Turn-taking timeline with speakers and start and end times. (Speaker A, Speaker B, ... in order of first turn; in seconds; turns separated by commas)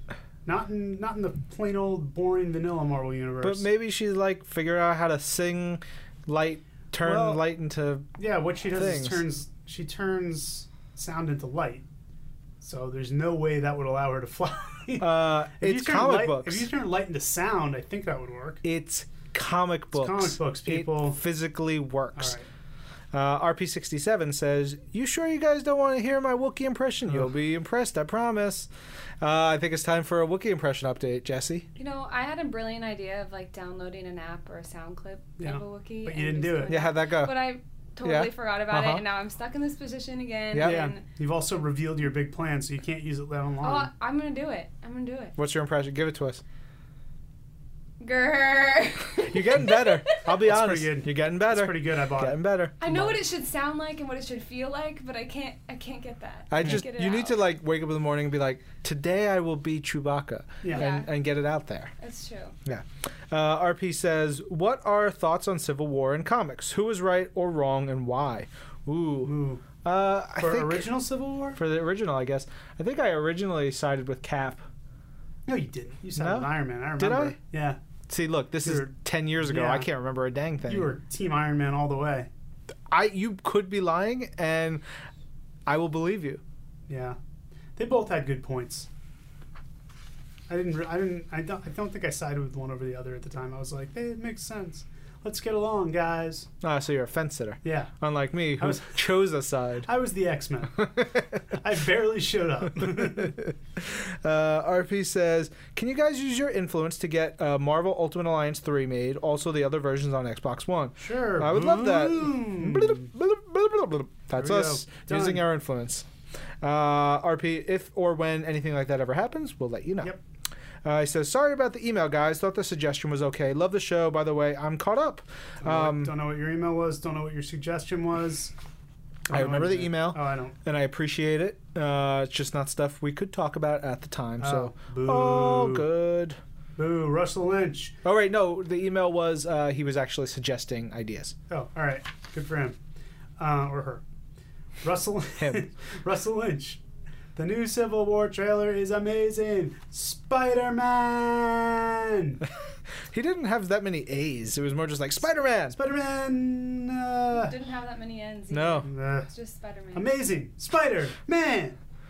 Speaker A: 0.4-3.6, Speaker B: 3.4-8.1, Speaker A: 7.0-7.4, Speaker A: 8.2-11.8, Speaker B: 8.7-9.2, Speaker A: 12.6-18.6, Speaker B: 15.0-16.7, Speaker B: 18.6-22.4, Speaker A: 19.9-21.2, Speaker A: 22.1-22.4, Speaker B: 23.1-28.7, Speaker B: 29.2-31.7, Speaker C: 31.8-41.0, Speaker A: 35.4-36.8, Speaker B: 36.7-37.4, Speaker B: 38.0-39.0, Speaker B: 40.5-40.9, Speaker A: 40.6-43.9, Speaker C: 43.6-45.3, Speaker B: 45.4-46.4, Speaker C: 48.0-50.2, Speaker B: 49.2-52.7, Speaker A: 50.4-53.2, Speaker C: 52.8-57.4, Speaker B: 56.5-61.9, Speaker C: 60.7-61.1, Speaker C: 62.0-62.5, Speaker B: 62.6-70.9, Speaker A: 69.2-69.6, Speaker A: 70.4-71.6, Speaker B: 71.5-74.6, Speaker A: 75.5-77.8, Speaker B: 76.2-77.4, Speaker B: 78.1-80.9, Speaker A: 78.6-79.9, Speaker A: 80.6-82.3, Speaker B: 82.9-84.8, Speaker B: 85.7-86.4, Speaker A: 86.9-87.2, Speaker A: 87.8-88.9, Speaker A: 90.5-96.5, Speaker B: 96.6-99.9, Speaker A: 97.6-97.9, Speaker A: 98.6-99.1, Speaker A: 99.8-100.9, Speaker B: 100.8-101.4, Speaker A: 101.5-103.4, Speaker B: 102.8-116.1, Speaker A: 111.0-113.1, Speaker A: 114.3-115.5, Speaker B: 116.6-120.2, Speaker B: 120.8-126.1, Speaker A: 125.6-128.5, Speaker A: 129.3-130.5, Speaker B: 129.3-136.4, Speaker A: 134.4-135.9, Speaker A: 136.8-137.9, Speaker B: 138.0-141.3, Speaker A: 141.5-142.8, Speaker A: 143.4-144.0, Speaker A: 144.8-146.8, Speaker B: 145.4-145.7, Speaker A: 147.3-152.4, Speaker B: 153.1-155.8, Speaker A: 155.7-157.5, Speaker C: 157.3-160.1, Speaker B: 158.5-158.9, Speaker A: 158.8-159.3, Speaker A: 159.9-161.8